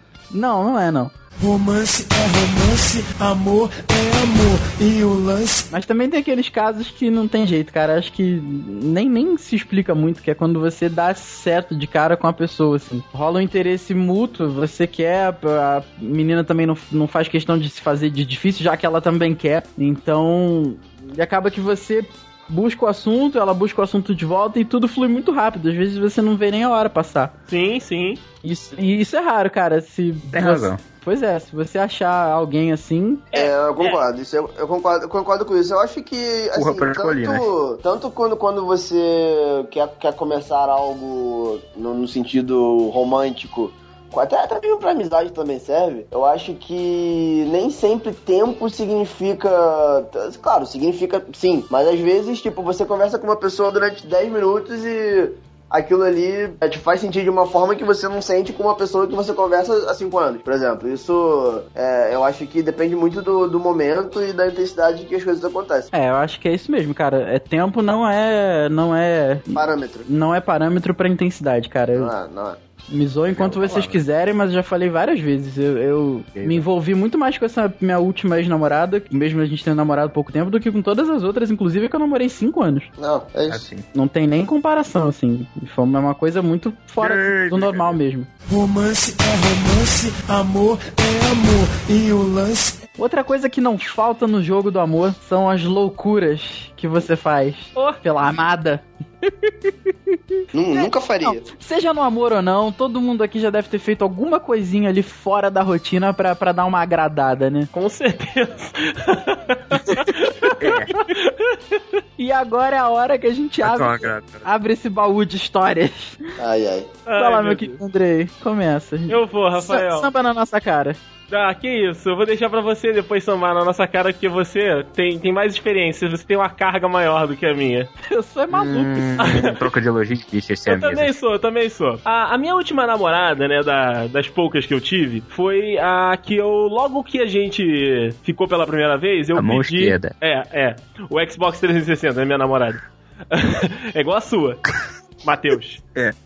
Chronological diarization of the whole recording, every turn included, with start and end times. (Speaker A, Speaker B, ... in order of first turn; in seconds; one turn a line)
Speaker A: 0.3-1.1
Speaker B: 1.4-5.7
Speaker A: 5.7-27.3
Speaker C: 27.5-28.2
Speaker A: 28.4-33.2
Speaker D: 30.3-30.8
Speaker C: 33.3-34.0
Speaker E: 33.3-65.9
Speaker D: 36.5-37.5
Speaker A: 65.9-72.1
Speaker E: 69.5-70.1
Speaker E: 71.9-72.6
Speaker A: 72.9-82.9
Speaker D: 73.3-74.0
Speaker D: 76.3-76.6
Speaker E: 83.0-83.6
Speaker D: 83.5-83.8
Speaker A: 83.9-88.3
Speaker D: 87.0-88.0
Speaker B: 88.5-92.8
Speaker A: 93.0-99.5
Speaker E: 100.5-101.4
Speaker A: 100.8-107.7
Speaker C: 107.7-110.5
Speaker D: 110.6-110.9
Speaker C: 111.1-111.8
Speaker A: 112.2-116.4
Speaker D: 113.6-114.5
Speaker E: 116.4-116.9
Speaker C: 117.0-117.8
Speaker A: 117.1-121.0
Speaker C: 119.1-120.1
Speaker C: 121.3-127.9
Speaker A: 128.1-129.2
Speaker D: 128.5-131.1
Speaker C: 129.2-129.5
Speaker C: 130.7-144.7
Speaker D: 139.3-140.1
Speaker C: 145.2-145.8